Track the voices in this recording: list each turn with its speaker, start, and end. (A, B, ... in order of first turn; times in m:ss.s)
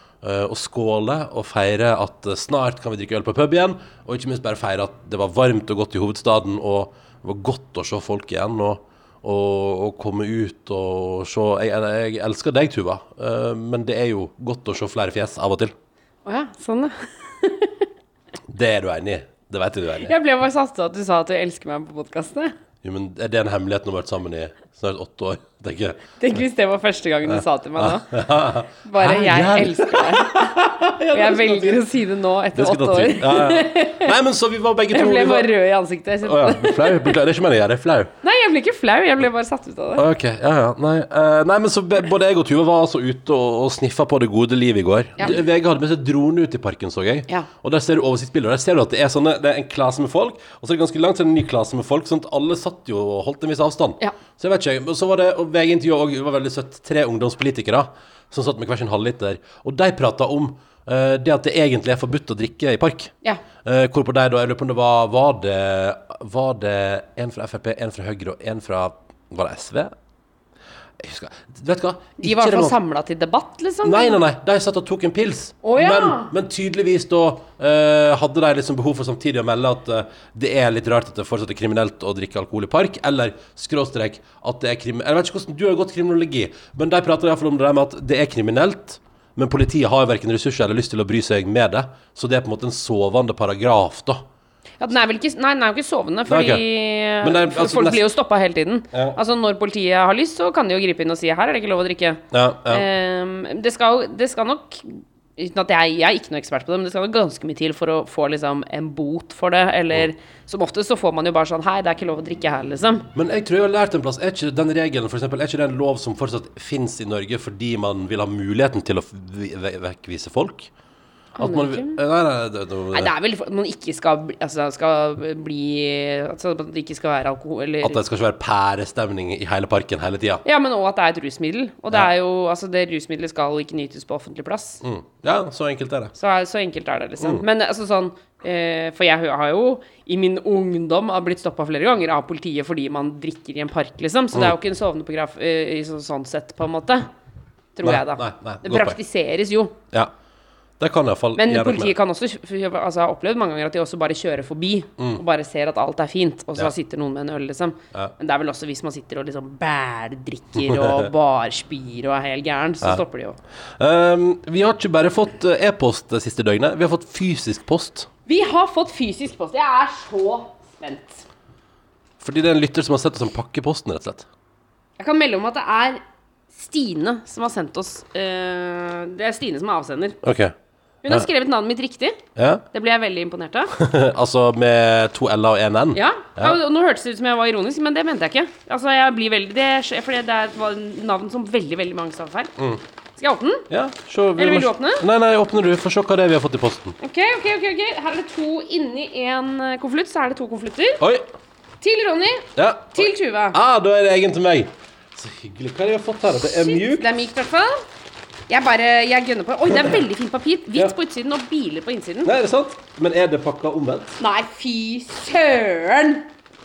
0:00.2-0:15.7 A
0:16.2-0:17.8 B
0:18.5-0:20.1 A
0:20.0-0:22.5 B
0:22.8-0:26.0 A
0:26.2-0:28.1 B
0:27.3-0:31.8 A
0:28.8-0:30.5 B
0:31.1-0:34.1 B
0:32.5-0:35.5 A
0:34.9-0:37.1 B
0:36.2-0:38.1 A
0:38.2-0:40.0 B
0:40.0-1:03.1 A
1:03.6-1:09.9 A
1:11.0-1:12.8 A
1:12.2-1:14.2 B
1:13.8-1:34.2 A
1:15.6-1:16.3 B
1:34.8-1:53.1 B
1:36.3-1:36.6 A
1:37.2-1:38.0 A
1:38.9-1:39.2 A
1:42.3-1:42.8 A
1:53.1-2:00.7 A
2:01.4-2:02.0 B
2:01.4-2:03.1 A
2:02.9-2:08.0 B
2:07.8-2:10.4 A
2:10.4-2:14.8 B
2:14.8-2:16.1 A
2:16.1-2:27.1 B
2:27.8-2:29.7 B
2:27.8-2:29.0 A
2:30.8-2:31.9 A
2:31.4-2:43.4 B
2:40.6-2:41.1 A
2:43.8-2:48.1 A
2:48.3-2:51.2 B
2:52.2-2:54.2 A
2:55.0-2:56.0 B
2:56.5-3:00.2 B
3:00.2-3:00.5 A
3:01.0-3:02.2 B
3:02.4-3:02.6 A
3:02.7-3:03.7 B
3:03.8-3:06.6 A
3:05.9-3:12.5 B
3:13.2-3:13.6 B
3:13.7-3:17.0 A
3:14.4-3:15.0 B
3:17.0-3:21.0 B
3:21.0-3:21.2 A
3:21.8-3:23.6 B
3:22.6-3:27.1 A
3:26.4-3:27.8 B
3:28.5-3:32.3 B
3:32.2-3:34.2 A
3:34.2-3:36.3 B